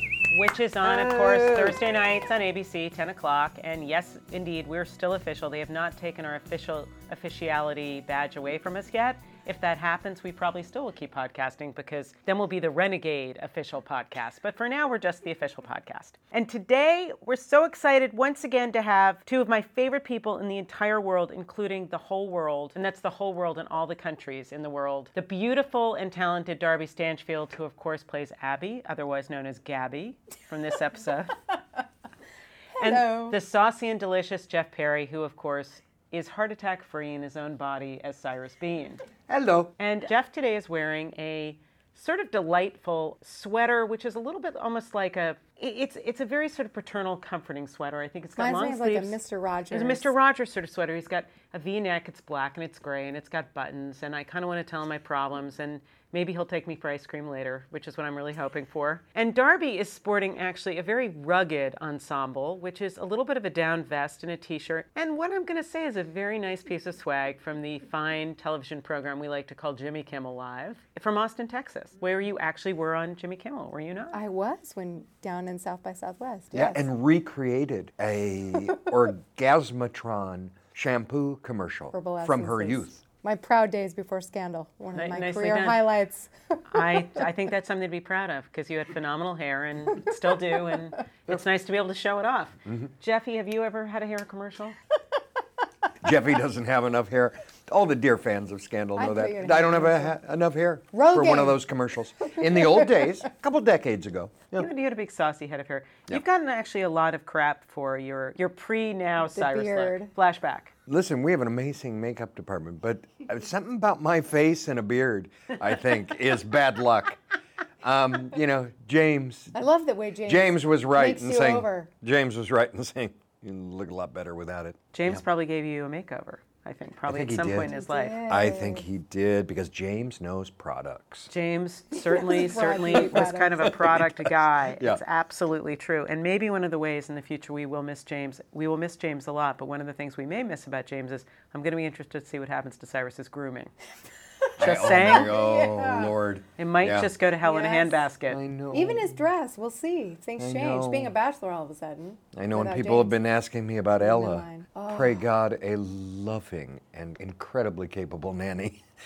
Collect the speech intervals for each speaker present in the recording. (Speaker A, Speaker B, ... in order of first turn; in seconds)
Speaker A: 0.3-31.4, 32.8-39.0, 39.8-49.2, 49.7-74.2, 84.9-85.8, 86.7-94.8, 104.5-110.7, 124.9-128.2, 131.3-143.7, 144.6-145.3, 146.6-148.4
Speaker B: 0.8-1.8, 39.3-39.7, 76.5-83.0, 92.7-92.9, 96.0-104.7, 110.9-117.2, 117.8-119.6, 120.2-125.2, 127.0-127.7, 128.3-131.3, 132.9-135.0, 144.6-147.1, 148.3-149.2, 150.4-151.1, 152.3-158.8
Speaker C: 32.8-33.4, 48.4-50.1, 74.1-76.8, 81.9-87.3, 89.9-90.9, 99.0-100.2, 100.9-101.6, 102.2-103.1, 109.3-110.1, 119.5-121.9, 127.6-128.8, 132.0-134.0, 144.6-146.1, 147.4-148.1, 148.7-153.2, 153.9-155.2